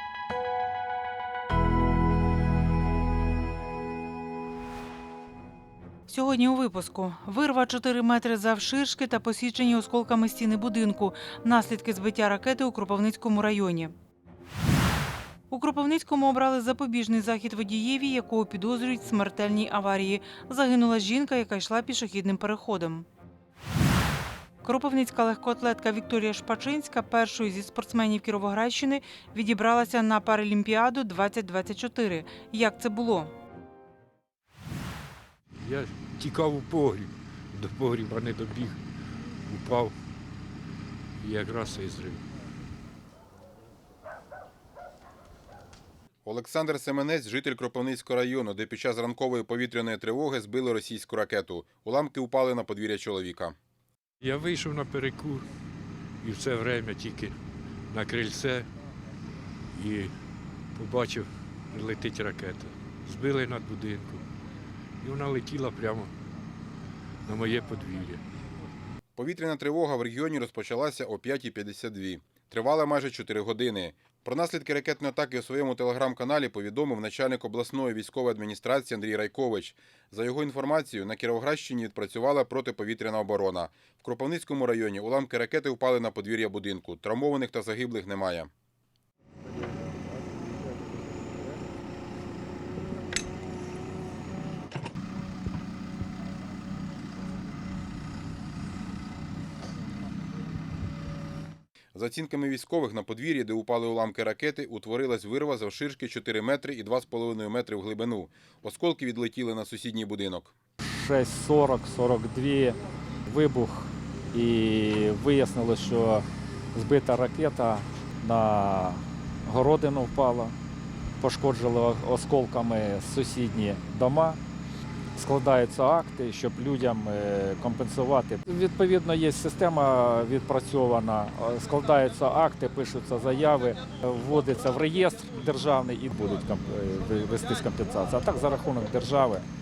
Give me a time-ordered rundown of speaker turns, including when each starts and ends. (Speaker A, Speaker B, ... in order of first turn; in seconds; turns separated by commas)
Speaker A: 6.1-13.9, Speaker A: 15.5-23.1, Speaker A: 24.6-33.3, Speaker B: 35.6-38.8, Speaker B: 39.5-40.0, Speaker B: 41.2-42.2, Speaker C: 46.2-53.6, Speaker B: 54.2-55.5, Speaker B: 56.2-57.4, Speaker B: 57.9-58.7, Speaker B: 59.7-60.2, Speaker B: 60.8-64.2, Speaker B: 65.0-66.1, Speaker B: 67.3-68.2, Speaker C: 69.2-88.5, Speaker C: 101.9-110.5, Speaker D: 111.0-120.5, Speaker D: 121.2-124.4, Speaker D: 125.2-139.5